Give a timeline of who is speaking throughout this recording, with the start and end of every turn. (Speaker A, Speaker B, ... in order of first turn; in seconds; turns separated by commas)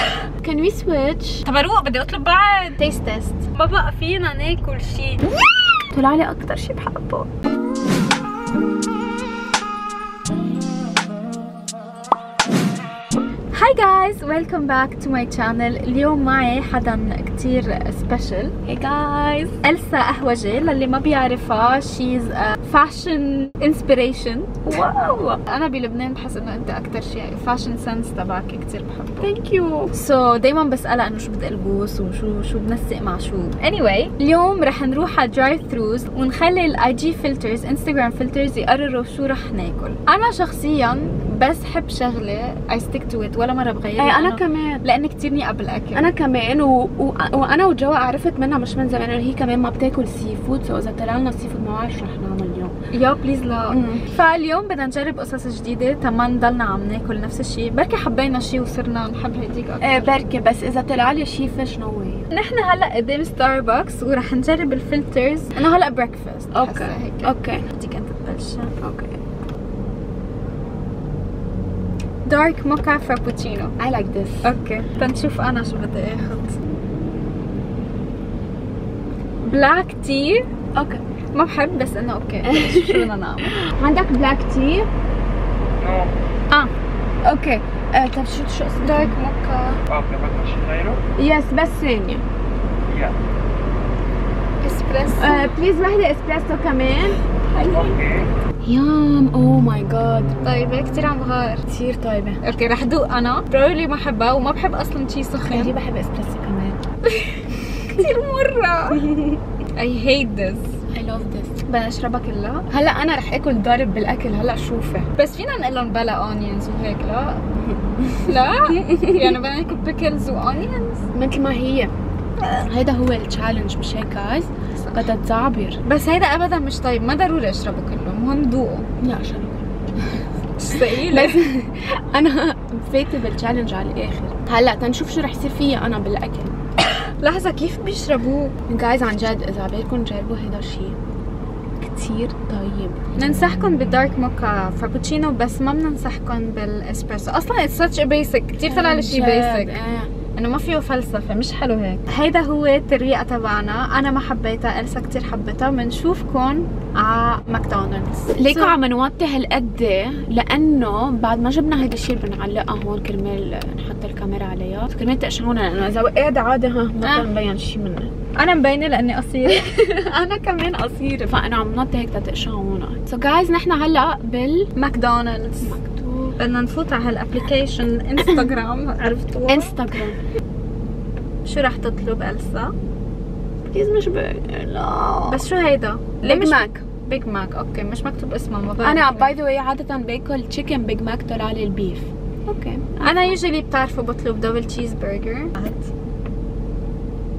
Speaker A: 0.4-1.4, Speaker B: 1.4-5.2, Speaker A: 5.9-7.3, Speaker B: 13.5-18.6, Speaker A: 18.7-19.6, Speaker B: 19.6-24.9, Speaker A: 24.7-25.4, Speaker B: 25.4-29.3, Speaker A: 29.2-29.9, Speaker B: 29.9-46.1, Speaker A: 44.0-44.8, Speaker A: 46.0-52.7, Speaker B: 52.9-60.1, Speaker A: 53.7-54.0, Speaker A: 59.8-62.3, Speaker B: 62.3-68.7, Speaker A: 66.5-67.6, Speaker A: 68.8-69.2, Speaker B: 72.2-73.7, Speaker A: 73.8-74.5, Speaker B: 74.4-76.6, Speaker B: 79.4-80.5, Speaker A: 80.8-81.0, Speaker B: 81.3-83.5, Speaker A: 82.4-84.9, Speaker C: 85.8-86.1, Speaker A: 87.2-89.1, Speaker B: 88.8-89.8, Speaker C: 89.9-91.0, Speaker A: 91.2-92.2, Speaker C: 92.9-93.2, Speaker B: 94.6-95.5, Speaker A: 95.2-97.2, Speaker B: 97.5-97.9, Speaker C: 97.6-98.3, Speaker A: 98.6-100.3, Speaker B: 100.4-101.6, Speaker A: 101.7-102.4, Speaker B: 102.4-105.8, Speaker A: 105.5-106.8, Speaker A: 107.5-108.1, Speaker B: 107.9-109.1, Speaker B: 109.8-110.7, Speaker A: 110.9-111.6, Speaker B: 111.7-112.7, Speaker A: 112.7-115.1, Speaker B: 115.2-117.4, Speaker A: 117.7-118.3, Speaker B: 118.2-121.0, Speaker A: 121.1-121.9, Speaker A: 122.6-125.8, Speaker B: 124.8-125.1, Speaker B: 125.8-128.9, Speaker A: 129.0-130.2, Speaker B: 130.6-131.4, Speaker A: 130.7-136.5, Speaker B: 137.0-138.5, Speaker A: 138.7-141.0, Speaker A: 141.8-143.0, Speaker B: 143.2-149.8, Speaker A: 148.7-150.1, Speaker B: 150.3-158.8, Speaker A: 158.4-168.1, Speaker B: 167.0-167.3, Speaker B: 168.4-171.3, Speaker A: 171.3-174.7, Speaker B: 174.8-175.8, Speaker A: 175.6-176.4, Speaker B: 176.4-179.8, Speaker A: 179.5-180.2, Speaker B: 181.4-182.7, Speaker A: 183.7-185.4, Speaker B: 185.3-189.4, Speaker A: 186.2-186.8, Speaker A: 188.8-193.4, Speaker B: 193.0-195.9